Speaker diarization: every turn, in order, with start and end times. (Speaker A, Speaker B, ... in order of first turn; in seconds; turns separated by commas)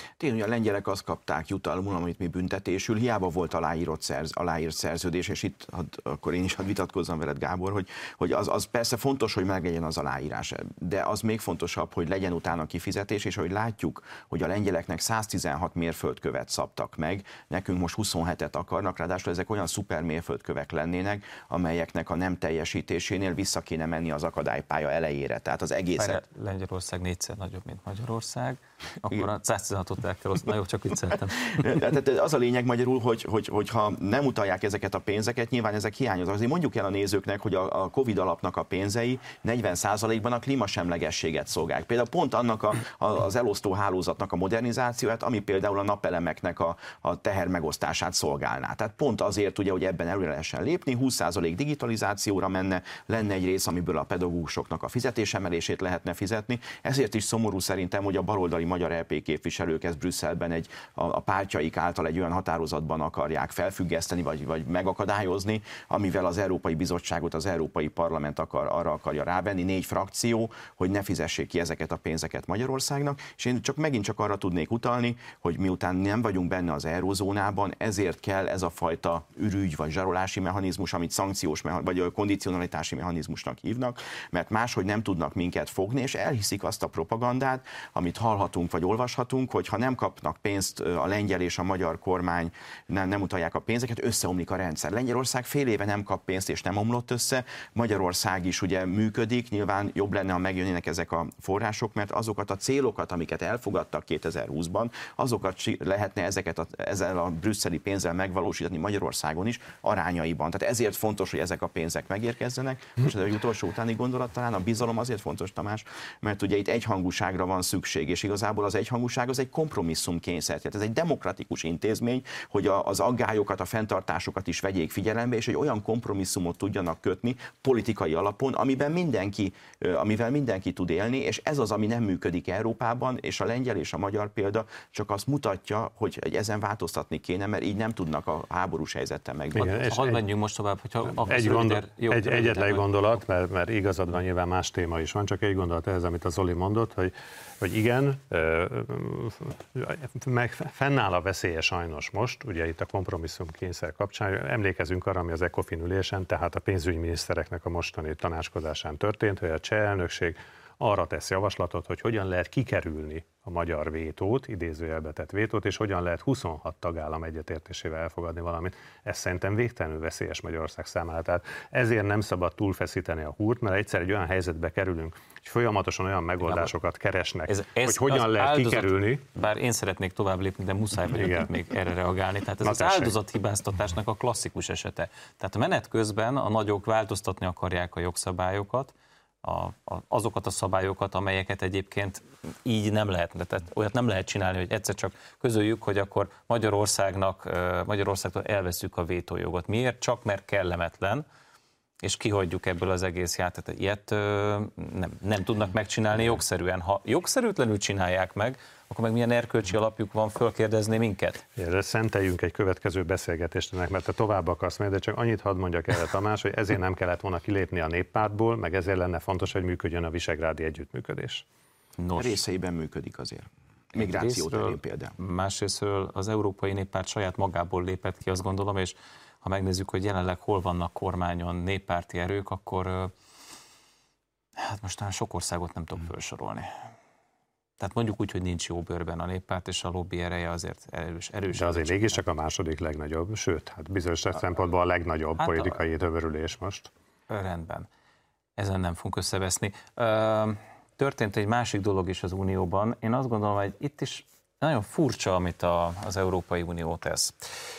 Speaker A: 0.2-26.2, Speaker B: 26.0-31.6, Speaker A: 31.6-139.7, Speaker C: 139.6-140.2, Speaker B: 139.6-142.9, Speaker C: 141.2-179.2, Speaker B: 176.4-176.7, Speaker B: 177.5-188.9, Speaker C: 181.2-181.5, Speaker C: 182.6-183.1, Speaker B: 189.4-201.2, Speaker B: 202.0-211.4, Speaker C: 211.6-221.4, Speaker B: 222.0-222.4, Speaker A: 222.2-225.1, Speaker B: 223.9-233.1, Speaker B: 234.6-236.7, Speaker B: 237.8-242.2, Speaker C: 241.5-246.9, Speaker B: 245.4-245.8, Speaker B: 247.3-247.9, Speaker B: 248.6-257.3